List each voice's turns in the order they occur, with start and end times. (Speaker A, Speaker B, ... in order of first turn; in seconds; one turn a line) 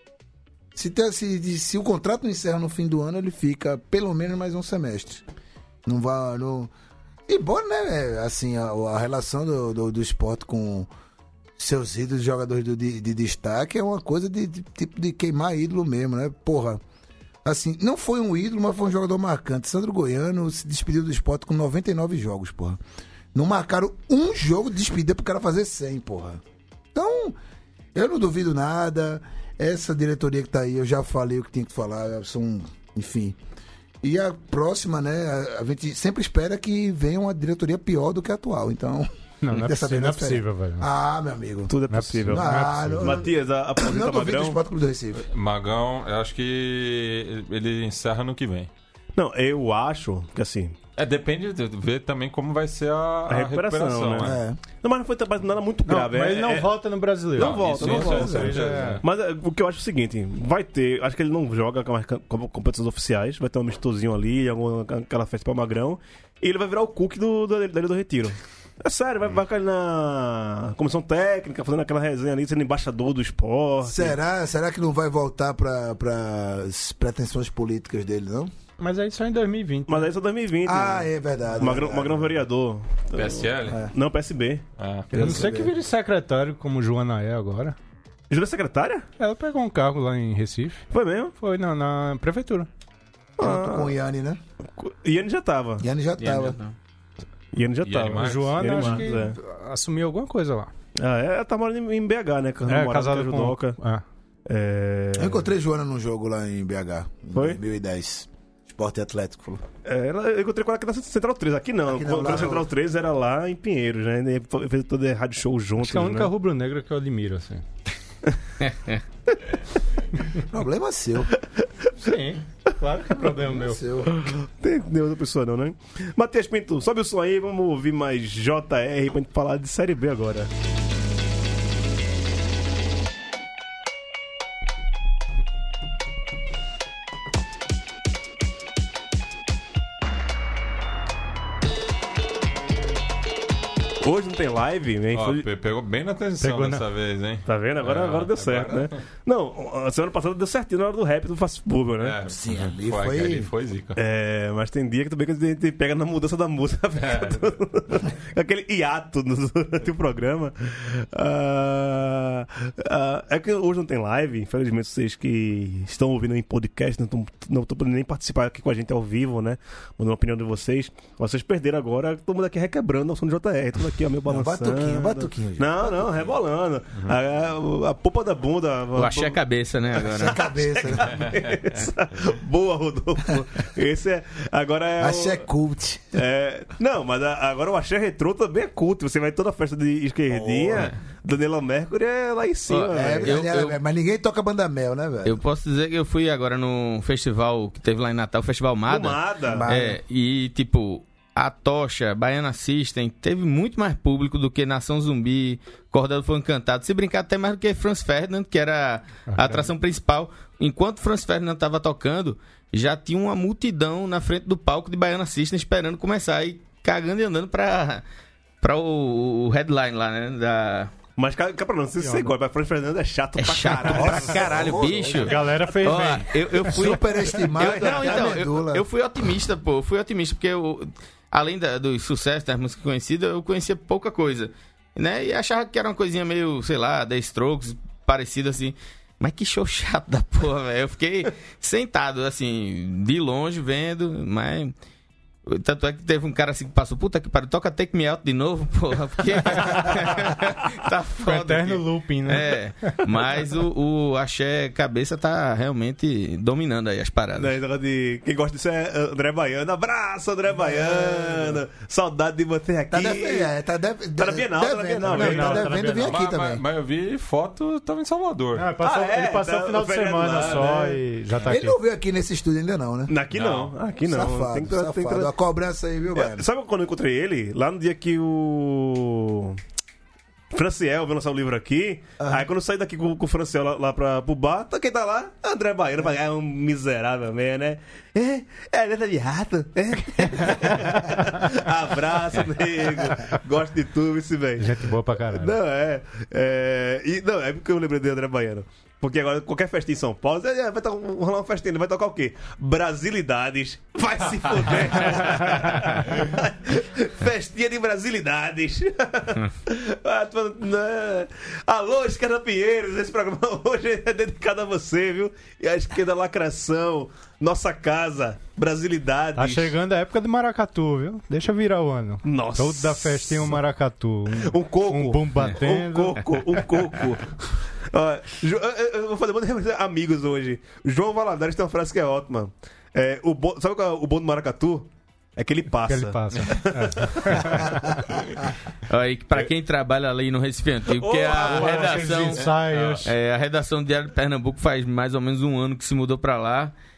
Speaker A: 0.7-5.2
Speaker A: 5.8-6.7
Speaker A: 7.3-10.9
Speaker A: 11.6-16.8
Speaker A: 17.4-22.8
Speaker A: 23.3-26.4
Speaker A: 26.9-27.4
Speaker A: 27.9-33.4
Speaker A: 34.0-41.7
Speaker B: 39.4-40.9
Speaker C: 41.7-44.6
Speaker B: 41.9-43.2
Speaker A: 42.3-45.2
Speaker D: 45.2-48.7
Speaker C: 49.1-50.8
Speaker D: 51.0-54.4
Speaker C: 53.3-56.7
Speaker A: 54.2-54.6
Speaker B: 55.9-59.0
Speaker C: 57.3-74.2
Speaker D: 57.4-59.0
Speaker A: 73.8-78.5
Speaker B: 78.8-80.1
Speaker C: 79.9-85.7
Speaker A: 80.6-82.3
Speaker D: 83.1-83.8
Speaker D: 84.8-85.1
Speaker B: 85.1-87.8
Speaker C: 88.3-89.0
Speaker B: 89.2-90.8
Speaker C: 90.9-91.3
Speaker B: 91.4-92.7
Speaker C: 93.4-93.9
Speaker A: 93.4-94.4
Speaker C: 94.8-95.8
Speaker A: 95.8-96.6
Speaker E: 96.2-96.7
Speaker C: 97.5-99.4
Speaker D: 97.8-99.0
Speaker B: 98.2-100.7
Speaker C: 101.0-103.8
Speaker B: 102.7-104.0
Speaker C: 104.5-105.4
Speaker A: 105.2-109.6
Speaker C: 107.3-107.6
Speaker C: 109.8-116.3
Speaker A: 111.9-112.7
Speaker B: 115.8-117.6
Speaker E: 118.6-119.0
Speaker A: 120.4-121.3
Speaker B: 122.0-123.8
Speaker A: 123.3-124.2
Speaker C: 124.0-130.5
Speaker C: 144.0-145.5
Speaker D: 145.1-149.0
Speaker B: 146.4-146.8
Speaker C: 147.4-152.2
Speaker D: 152.0-153.9
Speaker A: 152.3-153.5
Speaker C: 153.9-179.4
Speaker D: 157.0-157.4
Speaker A: 174.3-176.1
Speaker E: 178.9-180.4
Speaker C: 179.9-185.4
Speaker A: 180.1-181.2
Speaker D: 181.1-181.4
Speaker A: 185.0-186.2
Speaker C: 186.1-193.4
Speaker D: 190.3-191.0
Speaker E: 192.7-193.8
Speaker A: 192.9-195.4
Speaker E: 195.2-218.0
Speaker C: 198.9-199.7
Speaker A: 199.5-200.0
Speaker B: 209.3-209.7
Speaker E: 218.6-220.9
Speaker C: 221.2-224.7
Speaker B: 222.0-222.3
Speaker E: 223.4-244.7
Speaker A: 224.0-225.3
Speaker B: 225.2-226.7
Speaker A: 226.6-228.8
Speaker C: 227.6-228.3
Speaker E: 245.4-257.6
Speaker B: 249.6-250.1
Speaker B: 251.2-253.0
Speaker C: 257.4-263.5
Speaker A: 260.5-261.6
Speaker A: 262.9-266.6
Speaker C: 264.2-265.8
Speaker B: 265.1-266.2
Speaker D: 265.9-268.7
Speaker B: 268.5-271.8
Speaker C: 268.8-271.0
Speaker A: 271.5-273.1
Speaker C: 273.1-275.3
Speaker D: 273.3-273.8
Speaker A: 274.0-276.4
Speaker C: 276.1-279.6
Speaker C: 280.5-294.8
Speaker A: 282.2-282.4
Speaker B: 294.6-295.6
Speaker C: 295.3-319.7
Speaker B: 319.4-326.4
Speaker C: 322.2-323.6
Speaker C: 324.4-337.9
Speaker B: 335.9-338.0
Speaker E: 338.9-342.5
Speaker C: 340.9-342.2
Speaker B: 341.4-343.1
Speaker D: 342.3-343.1
Speaker E: 343.0-346.7